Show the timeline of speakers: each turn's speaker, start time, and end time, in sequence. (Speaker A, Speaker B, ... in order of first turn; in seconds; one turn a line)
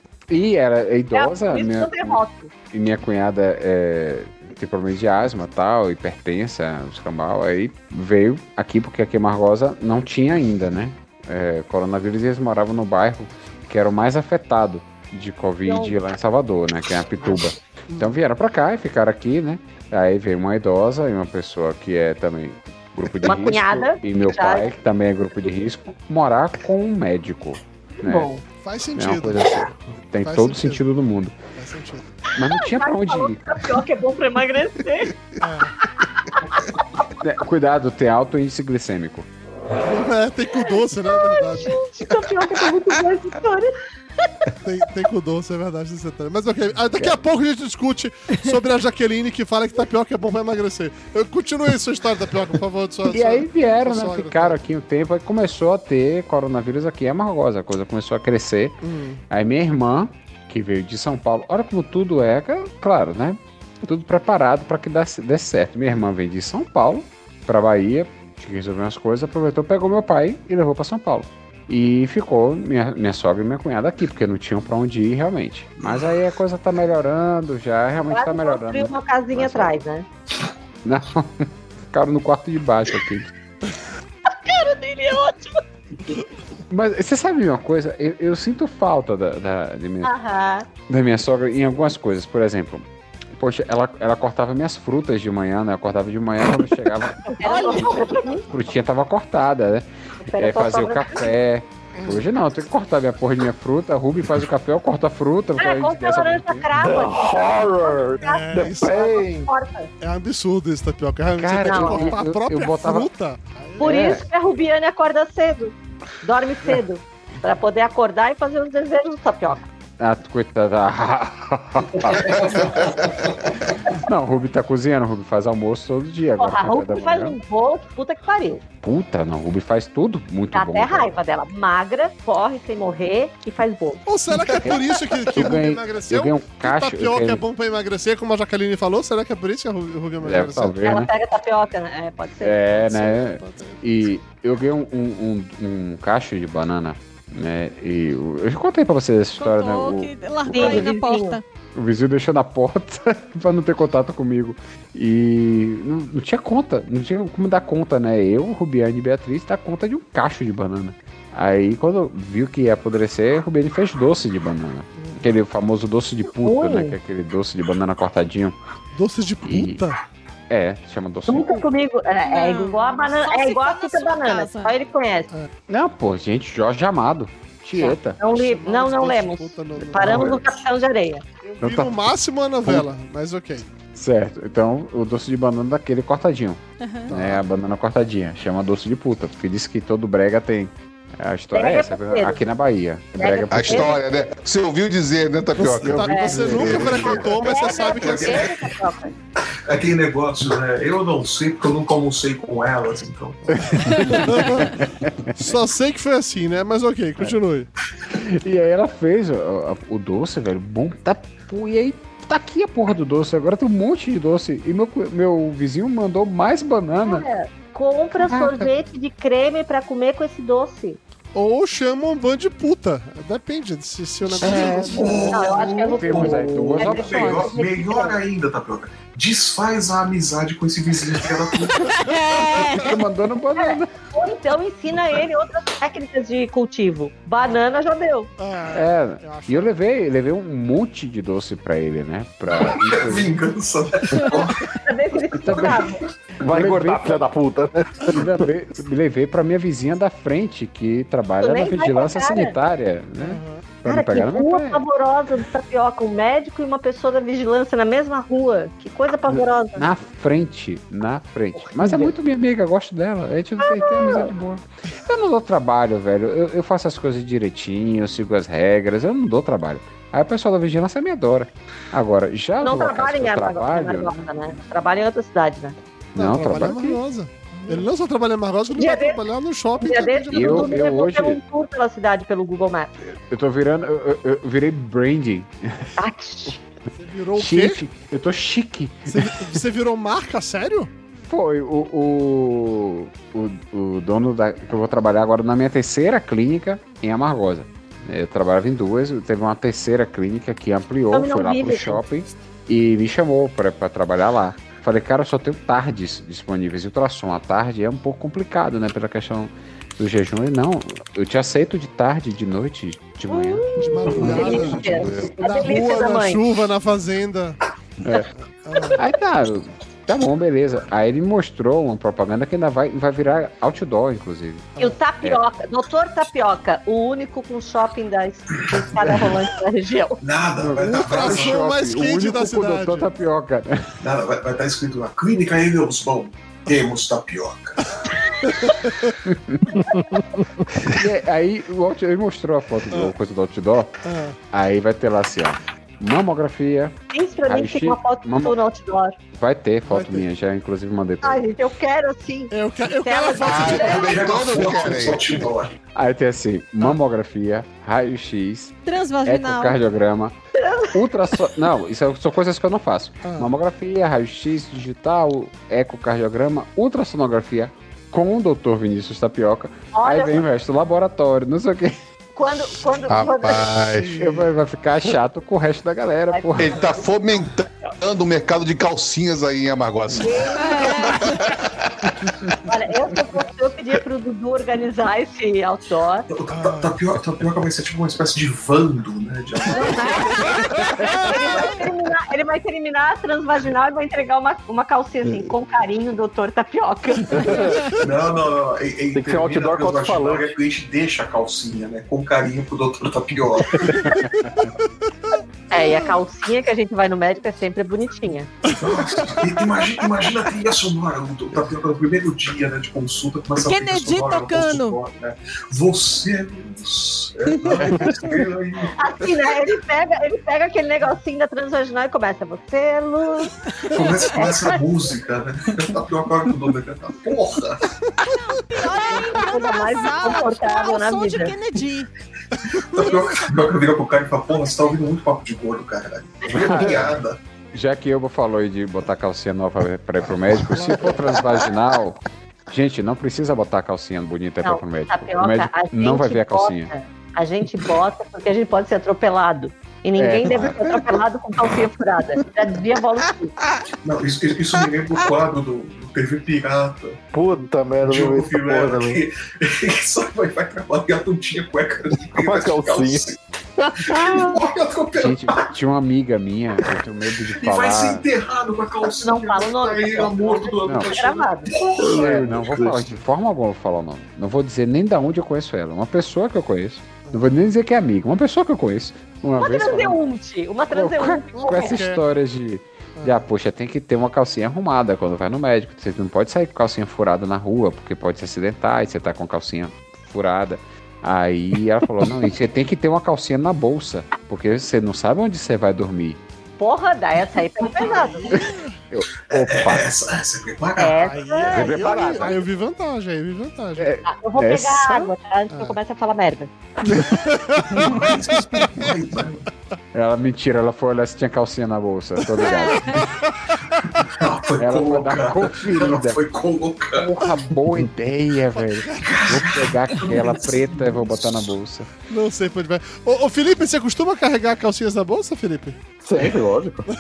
Speaker A: 0.3-2.2
Speaker B: 1.1-2.5
Speaker A: 2.7-28.3
Speaker B: 15.6-16.0
Speaker C: 17.9-18.2
Speaker B: 23.2-24.7
Speaker B: 28.0-28.4
Speaker C: 28.6-29.7
Speaker A: 28.9-31.4
Speaker C: 30.2-30.8
Speaker C: 31.6-32.1
Speaker A: 32.4-33.6
Speaker B: 32.4-35.2
Speaker C: 35.4-35.8
Speaker B: 36.0-36.6
Speaker A: 37.2-39.2
Speaker C: 39.8-41.8
Speaker B: 40.5-43.7
Speaker C: 44.6-54.6
Speaker A: 53.1-58.8
Speaker C: 58.8-59.2
Speaker A: 59.3-79.8
Speaker B: 78.1-80.0
Speaker A: 80.8-83.3
Speaker B: 84.3-85.6
Speaker A: 86.7-90.1
Speaker B: 90.0-90.7
Speaker A: 90.9-106.7
Speaker B: 97.3-98.5
Speaker D: 97.4-98.0
Speaker B: 100.3-101.3
Speaker C: 101.9-102.3
Speaker B: 105.6-109.9
Speaker E: 106.8-109.5
Speaker C: 108.2-109.1
Speaker C: 110.0-114.2
Speaker A: 111.3-113.1
Speaker B: 111.7-112.2
Speaker B: 113.8-119.7
Speaker A: 113.8-114.2
Speaker A: 120.0-127.4
Speaker F: 121.8-123.7
Speaker B: 126.4-128.6
Speaker A: 128.8-131.1
Speaker B: 130.5-134.0
Speaker C: 134.1-140.7
Speaker A: 134.5-137.4
Speaker A: 140.2-141.1
Speaker B: 140.8-143.1
Speaker A: 142.4-150.9
Speaker C: 143.1-143.8
Speaker D: 149.4-151.4
Speaker B: 150.5-151.4
Speaker A: 151.7-168.6
Speaker B: 166.4-167.0
Speaker C: 168.9-170.0
Speaker A: 169.4-169.8
Speaker A: 170.5-171.7
Speaker B: 171.3-175.3
Speaker D: 172.2-174.8
Speaker A: 175.7-178.2
Speaker B: 177.7-181.2
Speaker C: 178.3-180.3
Speaker A: 180.0-180.4
Speaker C: 181.4-183.7
Speaker A: 181.6-181.9
Speaker A: 183.9-193.9
Speaker D: 186.8-187.1
Speaker C: 187.1-187.4
Speaker B: 191.5-192.4
Speaker B: 193.2-194.0
Speaker G: 193.5-197.2
Speaker C: 195.6-198.5
Speaker A: 195.7-197.2
Speaker B: 196.1-199.1
Speaker F: 196.9-198.5
Speaker F: 199.6-203.6
Speaker A: 203.5-205.3
Speaker C: 203.6-204.8
Speaker C: 205.3-207.7
Speaker A: 208.1-217.3
Speaker B: 217.0-221.0
Speaker A: 218.2-218.7
Speaker C: 221.3-225.3
Speaker A: 224.3-227.5
Speaker F: 224.4-232.0
Speaker B: 225.3-228.2
Speaker D: 231.8-233.0
Speaker C: 232.1-232.6
Speaker A: 232.4-233.9
Speaker B: 233.6-238.3
Speaker C: 238.4-239.7
Speaker A: 238.7-243.4
Speaker F: 242.5-244.7
Speaker B: 244.7-246.0
Speaker A: 245.4-245.8
Speaker F: 245.5-246.0
Speaker A: 246.4-247.3
Speaker E: 246.4-248.4
Speaker A: 248.0-254.8
Speaker B: 251.4-252.6
Speaker C: 253.2-253.6
Speaker B: 253.8-259.9
Speaker A: 259.8-274.3
Speaker B: 261.7-262.1
Speaker B: 263.6-264.3
Speaker B: 272.6-275.8
Speaker A: 276.1-277.0
Speaker C: 276.1-280.8
Speaker B: 278.8-279.2
Speaker B: 279.8-283.0
Speaker A: 280.3-281.4
Speaker A: 283.1-285.9
Speaker B: 286.0-286.6
Speaker C: 287.0-287.8
Speaker A: 287.4-289.4
Speaker C: 289.1-290.9
Speaker A: 291.3-314.8
Speaker B: 301.1-302.0
Speaker B: 313.3-316.4
Speaker C: 313.8-317.6
Speaker G: 314.2-315.4
Speaker A: 318.0-318.3
Speaker C: 318.6-319.0
Speaker A: 318.9-325.4
Speaker B: 324.8-330.2
Speaker A: 329.0-329.4
Speaker F: 330.2-331.7
Speaker A: 330.6-333.9
Speaker C: 330.8-333.1
Speaker F: 334.0-337.8
Speaker C: 338.4-339.1
Speaker A: 339.2-340.0
Speaker A: 340.8-343.9
Speaker C: 344.0-344.4
Speaker A: 344.5-346.9
Speaker B: 347.1-349.2
Speaker A: 347.5-348.6
Speaker A: 349.3-351.4
Speaker C: 349.9-350.3
Speaker B: 351.2-354.2
Speaker C: 352.5-354.1
Speaker G: 353.4-355.4
Speaker F: 353.6-355.7
Speaker A: 355.9-358.7
Speaker D: 358.9-359.8
Speaker A: 359.2-360.3
Speaker B: 360.6-361.0
Speaker A: 360.9-371.9
Speaker C: 363.2-363.5
Speaker B: 369.9-370.4
Speaker B: 372.4-373.7
Speaker G: 373.1-374.3
Speaker C: 373.9-374.5
Speaker A: 374.2-376.8
Speaker B: 376.3-376.6
Speaker G: 376.6-381.4
Speaker B: 380.2-381.4
Speaker D: 380.5-381.3
Speaker B: 382.6-386.3
Speaker F: 386.3-390.5
Speaker C: 386.5-386.9
Speaker B: 389.7-397.8
Speaker E: 397.3-397.8
Speaker F: 397.9-404.1
Speaker E: 399.1-400.6
Speaker C: 403.9-404.7
Speaker A: 404.1-404.7
Speaker B: 405.7-408.5
Speaker C: 408.6-409.4
Speaker F: 408.8-418.9
Speaker D: 413.6-415.0
Speaker B: 418.9-424.9
Speaker F: 423.9-427.9
Speaker D: 428.2-432.1
Speaker B: 428.9-431.5
Speaker F: 432.9-437.4
Speaker D: 433.0-433.5
Speaker A: 436.5-437.1
Speaker A: 437.7-446.9
Speaker C: 440.6-441.4
Speaker B: 444.6-453.5
Speaker A: 450.2-451.0
Speaker F: 454.0-457.2
Speaker E: 457.3-459.2
Speaker F: 458.0-463.4
Speaker E: 462.3-464.6
Speaker F: 464.1-465.7
Speaker A: 465.1-468.2
Speaker F: 467.5-473.2
Speaker B: 469.2-471.9
Speaker A: 470.8-471.1
Speaker A: 472.0-480.2
Speaker C: 477.3-477.7
Speaker B: 479.6-482.0
Speaker A: 480.9-496.4
Speaker C: 481.5-482.2
Speaker C: 483.2-483.4
Speaker B: 496.8-498.5
Speaker C: 497.9-498.9
Speaker A: 498.5-500.0
Speaker F: 499.5-501.3
Speaker B: 501.0-502.0
Speaker C: 501.2-504.1
Speaker G: 501.6-502.6
Speaker A: 501.7-502.5
Speaker A: 504.0-505.3
Speaker B: 504.2-506.7
Speaker C: 505.7-506.0
Speaker C: 507.1-509.1
Speaker A: 507.1-507.5
Speaker F: 507.9-509.6
Speaker A: 510.1-513.3
Speaker D: 512.6-513.2
Speaker C: 512.9-514.3
Speaker F: 514.2-517.4
Speaker A: 514.8-516.4
Speaker A: 517.1-522.1
Speaker C: 518.7-519.3
Speaker F: 519.2-521.8
Speaker C: 522.3-526.0
Speaker E: 526.2-527.0